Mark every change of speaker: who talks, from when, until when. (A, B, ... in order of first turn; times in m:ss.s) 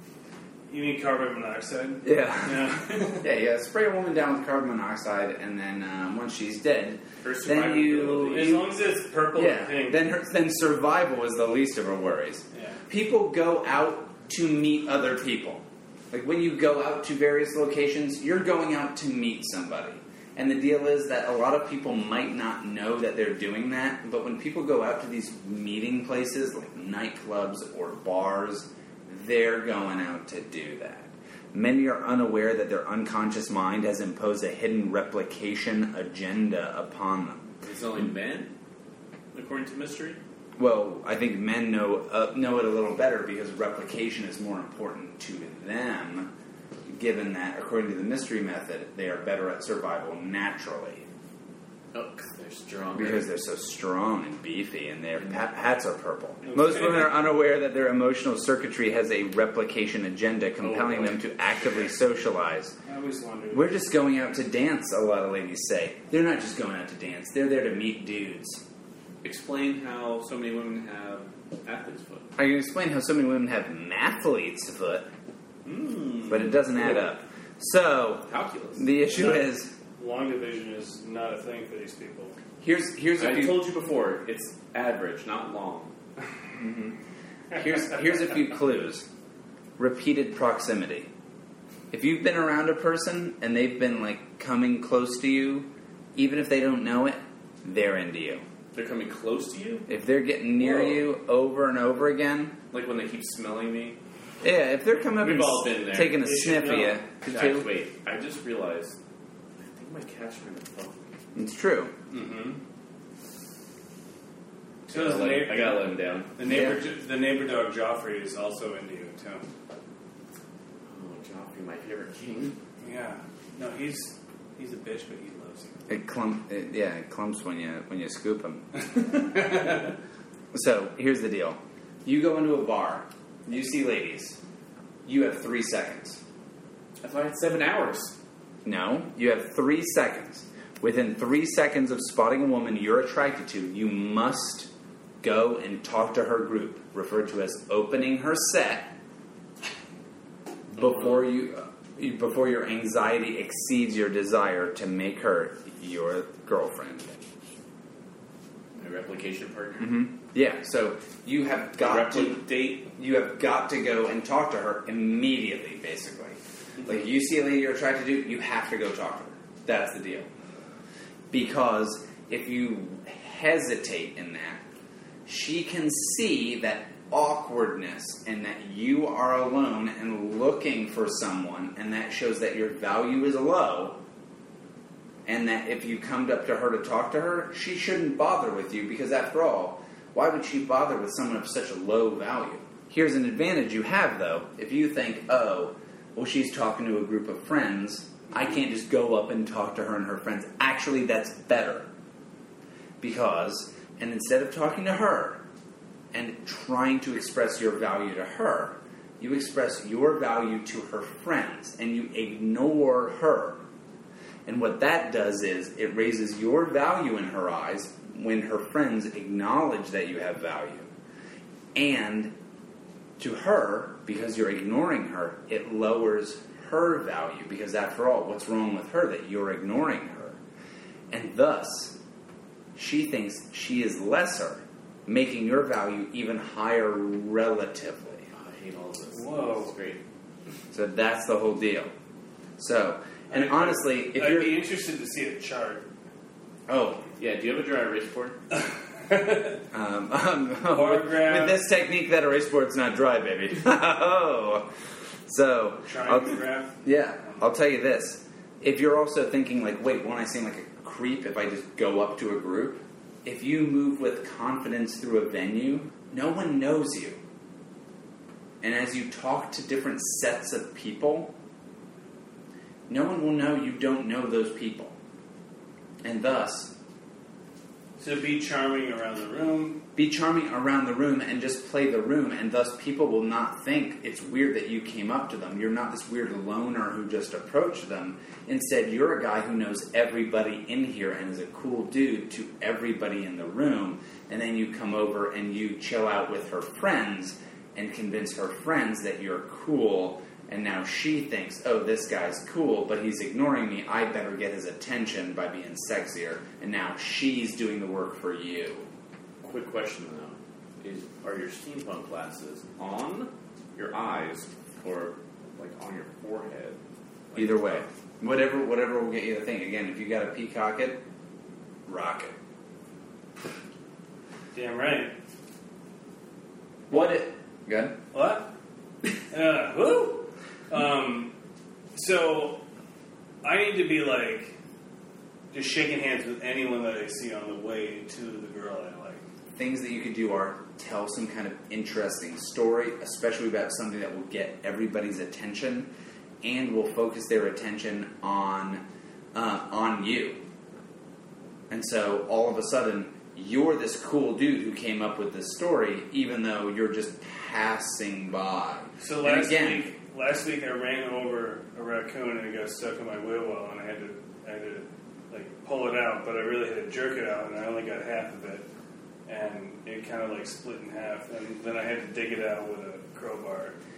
0:00.7-0:03.2 A
0:02.0-0:08.6 B
0:07.2-0:08.6 C
0:08.3-0:10.0 A
0:09.3-0:37.5 B
0:12.5-0:12.8 A
0:37.6-0:38.5 C
0:39.3-0:40.2 C
0:40.6-0:46.3 B
0:46.9-0:51.0 B
0:51.9-0:53.2 C
0:52.9-1:02.7 B
0:55.2-0:55.5 C
0:56.4-0:57.1 A
1:00.6-1:01.9 C
1:02.8-1:03.8 A
1:03.5-1:08.6 B
1:09.2-1:12.3 C
1:12.4-1:15.1 B
1:15.6-1:17.1 C
1:16.3-1:19.7 B
1:18.2-1:18.9 C
1:19.1-1:19.4 A
1:20.0-1:22.3 A
1:22.6-1:23.6 B
1:23.2-1:25.9 C
1:27.5-1:29.0 B
1:29.8-1:31.1 B
1:31.9-1:38.4 B
1:38.7-1:39.9 C
1:39.9-1:42.6 B
1:40.6-1:41.0 C
1:42.7-1:44.0 C
1:44.4-1:47.7 B
1:45.2-1:46.2 C
1:46.2-1:47.0 A
1:47.2-1:49.0 C
1:49.6-1:51.1 C
1:51.3-1:51.9 B
1:52.1-1:52.6 A
1:54.9-1:59.4 A
1:54.9-1:56.4 C
1:56.4-1:56.8 B
2:00.9-2:02.6 C
2:02.8-2:05.8 A
2:05.9-2:09.4 B
2:10.5-2:14.4 B
2:15.0-2:16.2 B
2:17.0-2:18.2 C
2:18.6-2:24.7 B
2:25.2-2:29.0 B
2:30.7-2:37.1 B
2:30.8-2:31.2 C
2:38.8-2:40.0 C
2:39.8-2:50.3 B
2:41.8-2:42.9 C
2:51.3-2:54.6 B
2:55.2-3:04.0 B
3:05.2-3:21.9 B
3:23.0-3:25.4 B
3:26.1-3:33.6 B
3:34.4-3:40.9 B
3:41.7-3:42.3 B
3:43.2-3:50.4 B
3:51.1-3:52.0 B
3:52.8-3:58.2 B
3:58.3-4:00.0 C
3:59.1-3:59.7 A
4:00.7-4:01.9 B
4:02.6-4:04.6 B
4:03.3-4:05.8 A
4:06.7-4:07.0 B
4:07.2-4:08.4 C
4:09.0-4:09.6 A
4:09.7-4:14.7 B
4:10.7-4:11.6 A
4:15.3-4:27.2 B
4:15.8-4:17.4 A
4:28.6-4:31.3 B
4:32.9-4:34.9 B
4:36.0-4:36.7 B
4:38.0-4:39.8 A
4:39.9-5:08.9 B
5:09.4-5:16.8 C
5:17.3-5:17.8 C
5:17.3-5:21.0 B
5:21.8-5:22.3 B
5:24.5-5:25.1 A
5:26.9-5:28.0 B
5:28.1-5:28.5 A
5:29.3-5:31.3 A
5:31.9-5:32.6 A
5:33.4-5:34.5 A
5:35.5-5:39.2 A
5:39.5-5:45.9 B
5:46.4-5:50.4 B
5:51.7-5:59.9 B
5:59.0-6:08.6 A
6:09.3-6:13.8 A